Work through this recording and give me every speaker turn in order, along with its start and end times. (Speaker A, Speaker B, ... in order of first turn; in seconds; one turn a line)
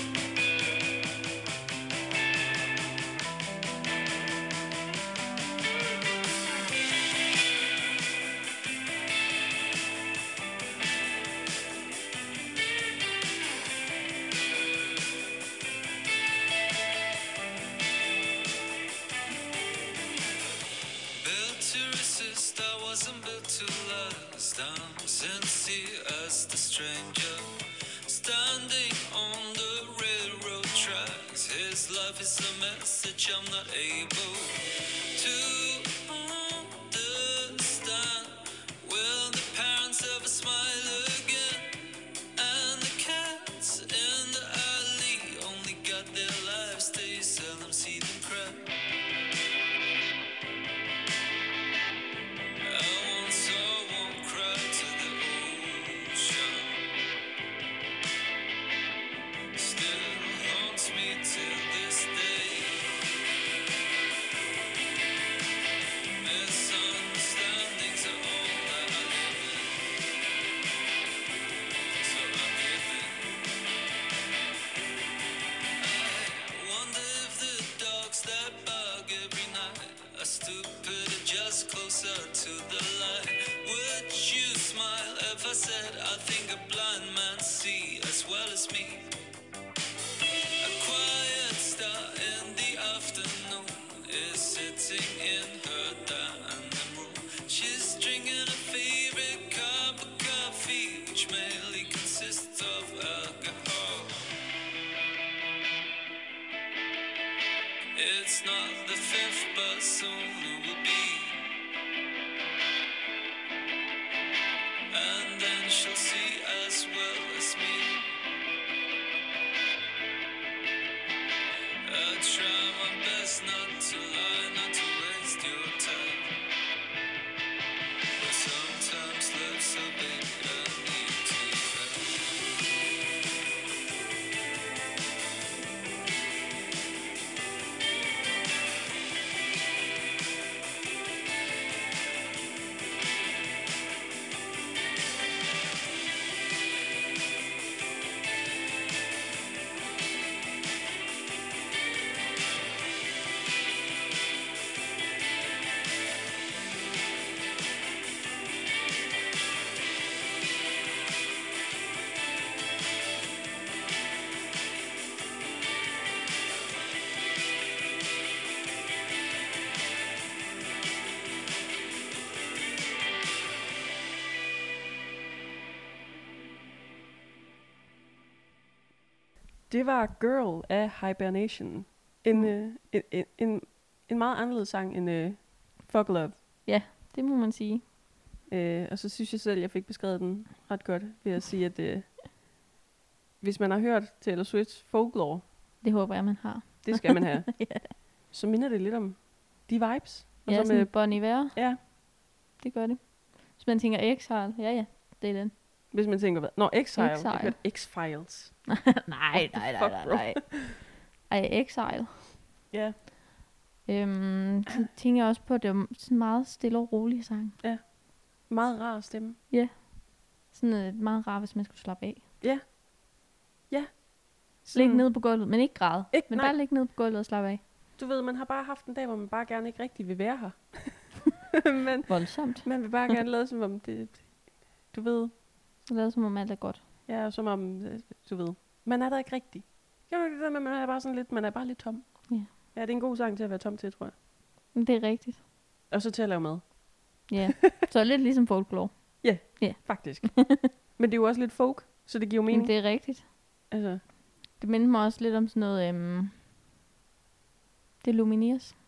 Speaker A: 21.2-41.8
Speaker A: 42.3-48.7
Speaker A: 52.6-56.8
Speaker A: 59.5-63.2
Speaker A: 66.2-69.8
Speaker A: 72.0-73.3
Speaker A: 75.8-89.1
Speaker A: 90.6-104.2
Speaker A: 108.0-111.5
Speaker A: 114.9-118.1
Speaker A: 121.8-126.4
Speaker A: 128.2-132.5
Speaker B: 179.7-186.4
Speaker C: 186.6-187.8
Speaker B: 188.5-192.1
Speaker B: 193.4-195.4
Speaker C: 195.8-197.9
Speaker B: 196.8-201.8
Speaker C: 200.4-201.9
Speaker C: 202.6-205.5
Speaker B: 205.9-208.6
Speaker C: 207.0-207.6
Speaker C: 208.7-212.3
Speaker B: 209.3-210.7
Speaker B: 212.7-212.9
Speaker C: 213.8-217.6
Speaker B: 218.4-219.4
Speaker C: 219.5-219.9
Speaker C: 220.4-222.2
Speaker B: 222.4-222.7
Speaker B: 223.7-225.1
Speaker C: 224.7-227.6
Speaker B: 226.1-226.5
Speaker B: 228.0-235.3
Speaker C: 232.1-233.1
Speaker C: 235.8-236.8
Speaker B: 237.1-244.1
Speaker C: 244.7-245.4
Speaker B: 245.9-246.8
Speaker C: 247.3-250.7
Speaker B: 249.2-252.7
Speaker C: 252.5-253.3
Speaker B: 253.7-254.0
Speaker C: 254.6-256.3
Speaker C: 258.0-258.7